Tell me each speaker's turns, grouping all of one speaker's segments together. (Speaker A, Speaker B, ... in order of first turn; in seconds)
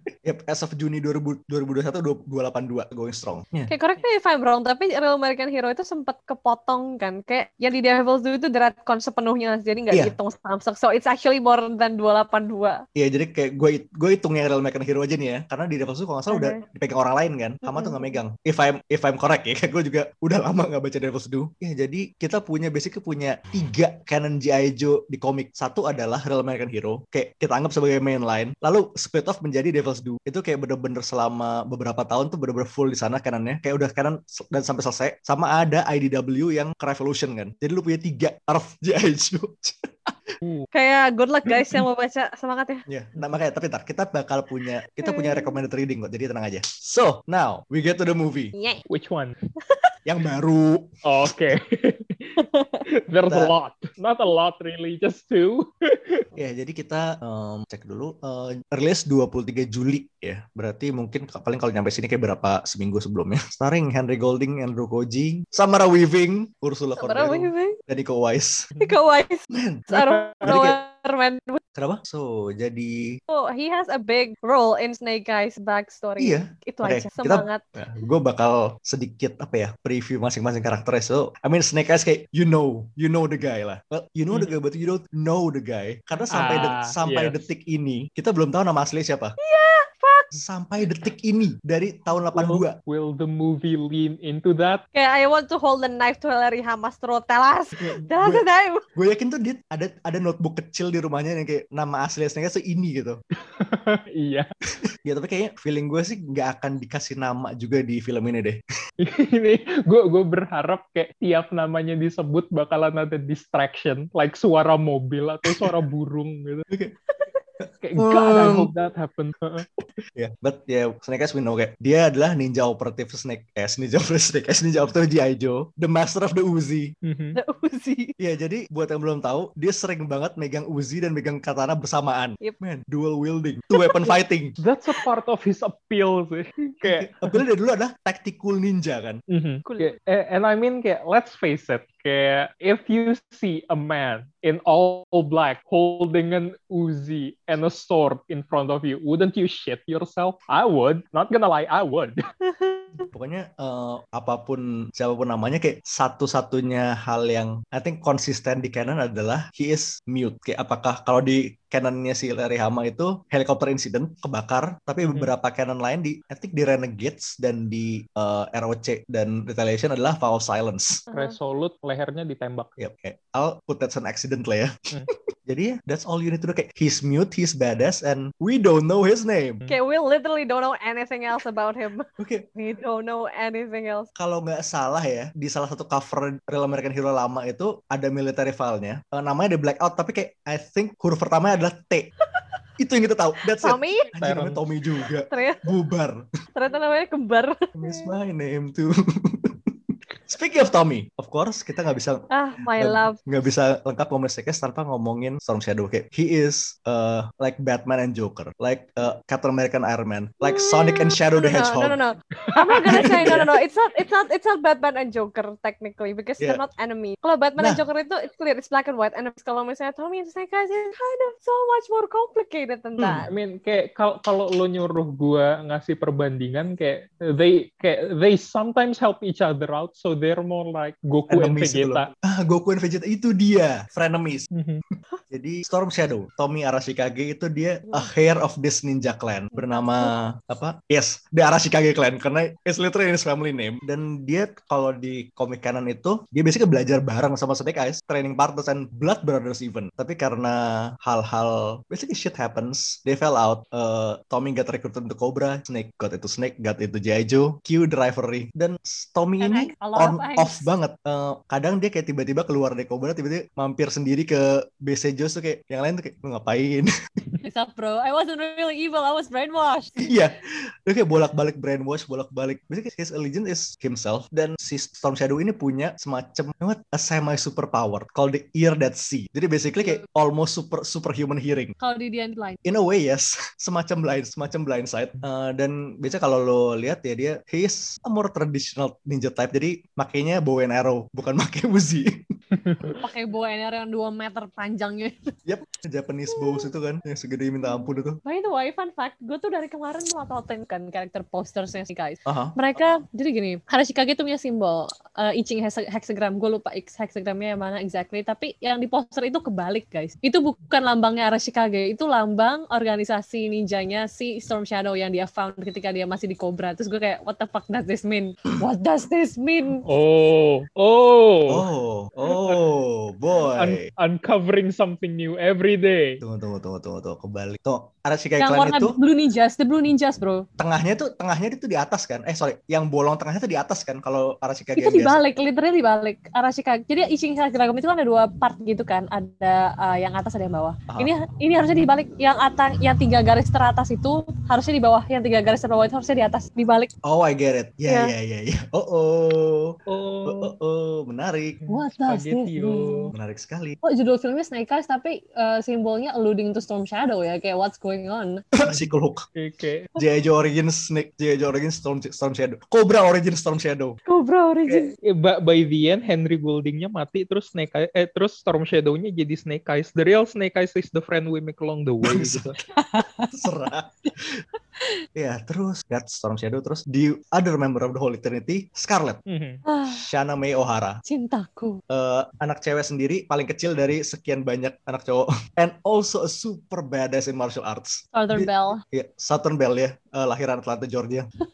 Speaker A: 0.2-3.7, 12.9-40.3, 42.9-48.5, 50.1-51.0, 53.3-53.5, 56.4-68.7, 69.5-70.8, 71.8-73.2, 76.2-89.3, 90.3-92.8, 97.8-103.2, 105.0-108.6, 115.5-115.7, 116.7-117.0, 117.6-118.7, 120.2-126.9, 128.2-134.6, 136.8-139.2, 153.1-171.0, 172.8-174.8, 175.5-179.6, 182.2-182.5, 184.2-192.1, 192.8-196.2, 197.8-212.0, 212.9-213.5, 217.6-217.8, 223.0-223.3, 231.3-234.5, 235.3-266.9, 270.0-281.7, 282.6-292.2, 295.5-298.2, 302.3-302.6, 321.5-323.9, 326.2-329.0, 330.6-335.2, 347.0-351.6, 353.1-353.8, 358.5-359.2, 360.0-364.0, 372.0-372.5, 373.3-374.4, 375.1-379.2, 379.9-381.0, 381.9-391.3
Speaker B: 3.7-12.8, 16.3-16.6, 17.6-18.2, 40.7-42.9, 45.0-45.6, 48.5-48.9, 52.4-52.8, 67.0-67.8, 68.8-71.6, 73.3-77.6, 89.4-90.3, 94.9-98.9, 127.4-128.1, 133.8-134.1, 139.7-139.9, 152.4-153.1, 171.1-171.4, 179.7-184.1, 193.6-194.1, 195.3-195.7, 196.6-198.1, 202.3-203.2, 210.4-223.3, 239.5-240.2, 259.4-260.7, 267.4-270.1, 281.8-282.6, 293.0-295.3, 296.3-296.7, 297.7-319.8, 328.4-330.5, 334.8-346.9, 347.9-348.1, 351.7-353.1, 353.8-358.5, 364.1-364.9, 372.7-373.5, 379.7-380.0, 381.1-381.8, 388.1-388.8
Speaker C: 40.4-40.7, 48.9-49.3, 51.0-56.2, 68.7-69.0, 70.0-70.4, 86.3-87.4, 92.3-94.8, 103.5-104.5, 109.0-116.7, 117.8-119.7, 127.0-127.4, 134.6-137.4, 139.3-152.2, 165.0-165.3, 171.1-172.7, 194.2-194.6, 212.4-213.5, 223.3-232.1, 234.5-234.8, 292.5-293.0, 319.8-321.6, 323.5-326.2, 349.9-350.5, 351.6-353.1, 359.4-359.9, 364.7-372.6, 379.3-379.6